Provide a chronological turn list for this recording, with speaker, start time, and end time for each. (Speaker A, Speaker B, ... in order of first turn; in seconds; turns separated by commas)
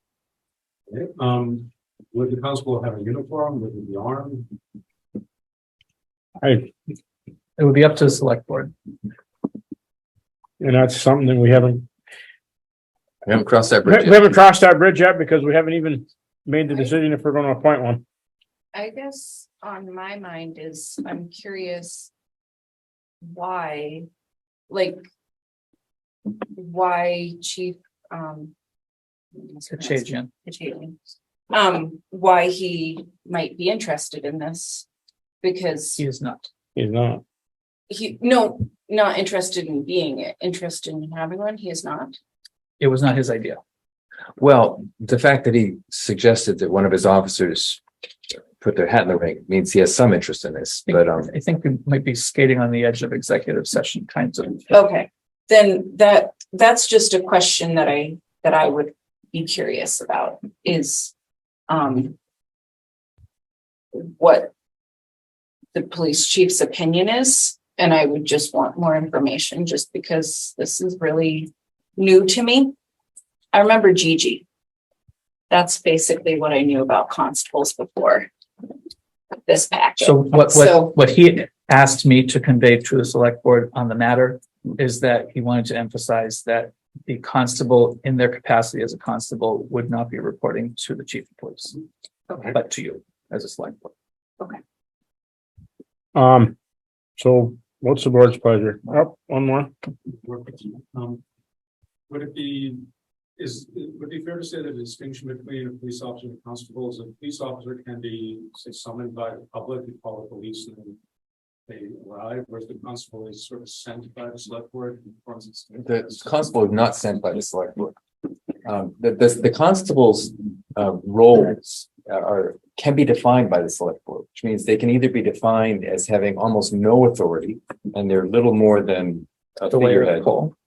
Speaker A: 0.9-4.5, Speaker B: 6.4-6.7, Speaker C: 7.6-8.7, Speaker B: 10.6-11.9, Speaker D: 13.2-14.3, Speaker B: 13.8-18.0, Speaker E: 18.7-22.1, Speaker E: 23.3-24.1, Speaker E: 24.7-25.0, Speaker E: 26.6-28.5, Speaker E: 29.4-30.9, Speaker C: 29.7-30.3, Speaker E: 31.5-34.9, Speaker E: 35.4-36.0, Speaker C: 36.0-36.5, Speaker B: 36.8-37.2, Speaker E: 37.9-42.2, Speaker C: 42.8-43.6, Speaker D: 44.4-47.8, Speaker D: 48.6-51.3, Speaker C: 50.9-54.8, Speaker E: 54.7-61.1, Speaker E: 61.7-62.1, Speaker E: 63.9-64.5, Speaker E: 65.7-72.7, Speaker E: 73.5-74.4, Speaker E: 75.5-78.3, Speaker E: 79.4-81.0, Speaker C: 80.0-91.8, Speaker C: 92.5-93.9, Speaker B: 96.2-96.5, Speaker B: 97.2-99.7, Speaker A: 100.1-101.2, Speaker A: 102.1-102.8, Speaker A: 103.4-111.0, Speaker A: 111.7-116.2, Speaker D: 115.8-118.0, Speaker D: 118.7-130.3, Speaker C: 129.7-130.5